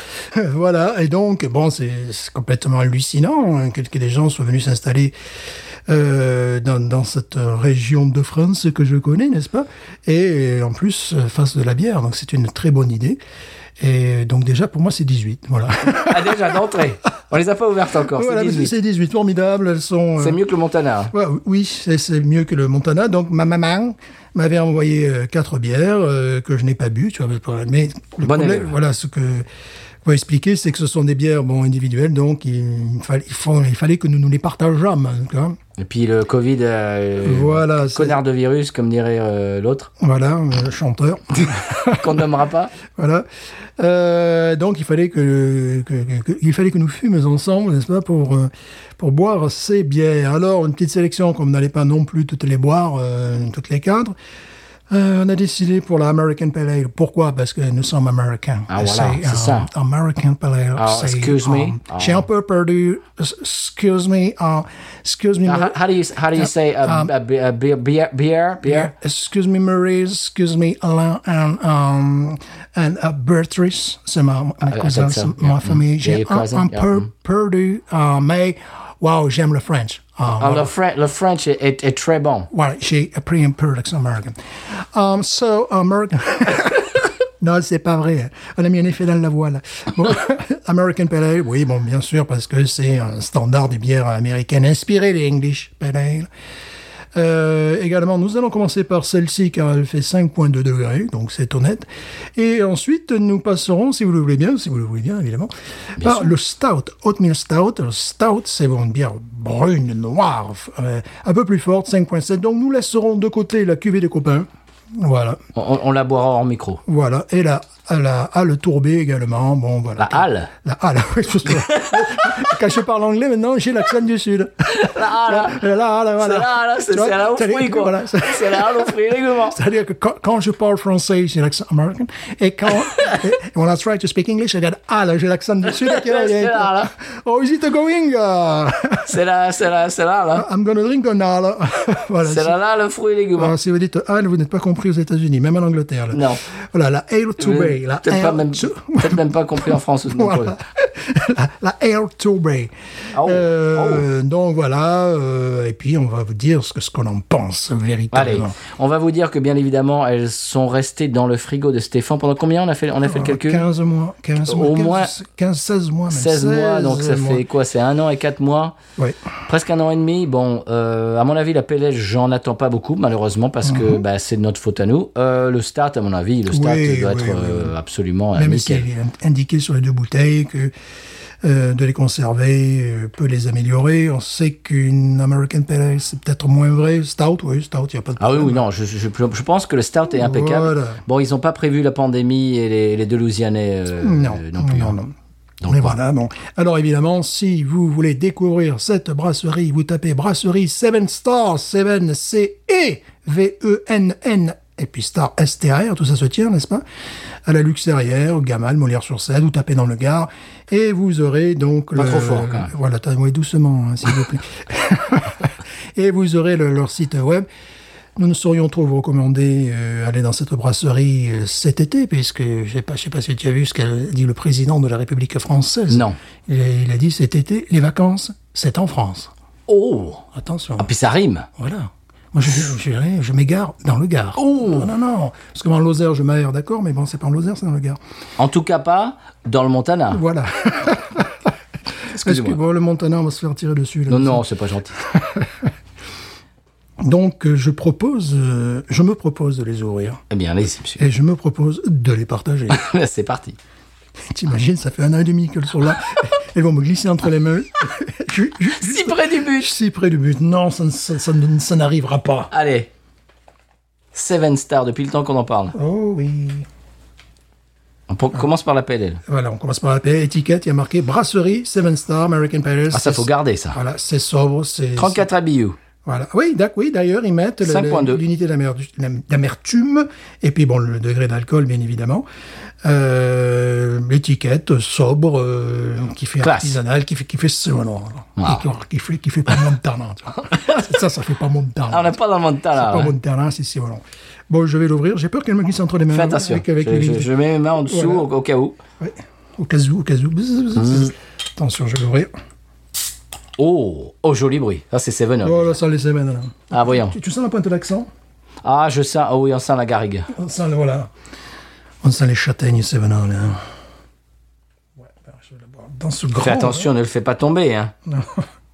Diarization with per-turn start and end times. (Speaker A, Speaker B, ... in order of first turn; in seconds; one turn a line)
Speaker A: 0.3-5.2
Speaker A: 5.9-13.2
Speaker A: 13.8-16.6
Speaker B: 15.9-18.7
Speaker A: 18.1-20.4
Speaker B: 20.2-21.1
Speaker A: 21.1-29.5
Speaker B: 28.2-28.7
Speaker A: 30.0-35.6
Speaker B: 35.8-39.9
Speaker A: 37.2-38.2
Speaker A: 40.0-42.2
Speaker B: 41.9-42.7
Speaker A: 42.8-43.3
Speaker A: 43.8-54.1
Speaker A: 54.9-65.8
Speaker B: 58.7-59.7
Speaker B: 60.8-62.2
Speaker B: 65.5-68.9
Speaker A: 66.3-67.1
Speaker A: 68.6-80.7
Speaker B: 74.6-77.1
Speaker B: 80.3-82.5
Speaker A: 82.5-96.3
Speaker A: 97.1-115.4
Speaker B: 106.0-106.3
Speaker B: 115.5-116.8
Speaker A: 116.9-139.2
Speaker B: 120.0-120.5
Speaker B: 121.7-122.3
Speaker B: 124.7-125.6
Speaker B: 126.2-129.6
Speaker B: 132.9-133.2
Speaker B: 135.7-136.9
Speaker B: 139.1-140.5
Speaker A: 140.3-142.6
Speaker B: 142.2-143.6
Speaker A: 143.4-149.2
Speaker B: 146.1-146.4
Speaker B: 147.4-150.6
Speaker A: 149.7-158.6
Speaker B: 153.1-154.1
Speaker B: 158.1-163.7
Speaker A: 163.1-167.4
Speaker B: 164.4-165.2
Speaker B: 166.1-168.8
Speaker B: 169.5-178.9
Speaker A: 173.7-174.0
Speaker A: 176.5-177.8
Speaker A: 178.3-180.7
Speaker A: 181.4-188.6
Speaker B: 188.2-195.0
Speaker A: 190.1-191.0
Speaker A: 194.0-195.1
Speaker B: 195.6-196.0
Speaker A: 195.7-206.8
Speaker A: 207.5-217.5
Speaker B: 212.0-212.7
Speaker A: 218.2-229.3
Speaker B: 225.9-226.2
Speaker B: 229.7-230.2
Speaker A: 230.3-230.9
Speaker B: 230.8-231.5
Speaker A: 231.6-238.0
Speaker B: 234.4-234.9
Speaker B: 238.4-240.2
Speaker A: 240.1-241.5
Speaker B: 242.1-242.6
Speaker A: 242.2-244.4
Speaker B: 244.1-245.0
Speaker A: 245.1-245.7
Speaker A: 247.0-250.2
Speaker B: 250.3-251.1
Speaker A: 251.0-252.8
Speaker B: 252.7-253.6
Speaker A: 254.3-262.5
Speaker B: 258.8-259.7
Speaker B: 262.5-262.9
Speaker B: 264.1-265.8
Speaker A: 265.8-266.7
Speaker B: 268.1-269.2
Speaker A: 269.3-275.2
Speaker B: 272.9-273.8
Speaker B: 275.0-275.8
Speaker A: 276.1-282.3
Speaker B: 277.6-278.2
Speaker A: 282.8-292.2
Speaker B: 286.4-286.8
Speaker B: 288.4-288.6
Speaker B: 290.4-290.9
Speaker B: 291.9-293.1
Speaker A: 292.8-297.3
Speaker B: 296.1-298.8
Speaker A: 297.9-298.3
Speaker A: 299.0-302.3
Speaker B: 303.6-305.8
Speaker A: 305.4-308.1
Speaker B: 306.7-307.1
Speaker B: 308.6-310.3
Speaker A: 310.3-311.1
Speaker A: 312.0-313.6
Speaker A: 315.0-316.9
Speaker B: 316.3-317.9
Speaker A: 318.1-318.5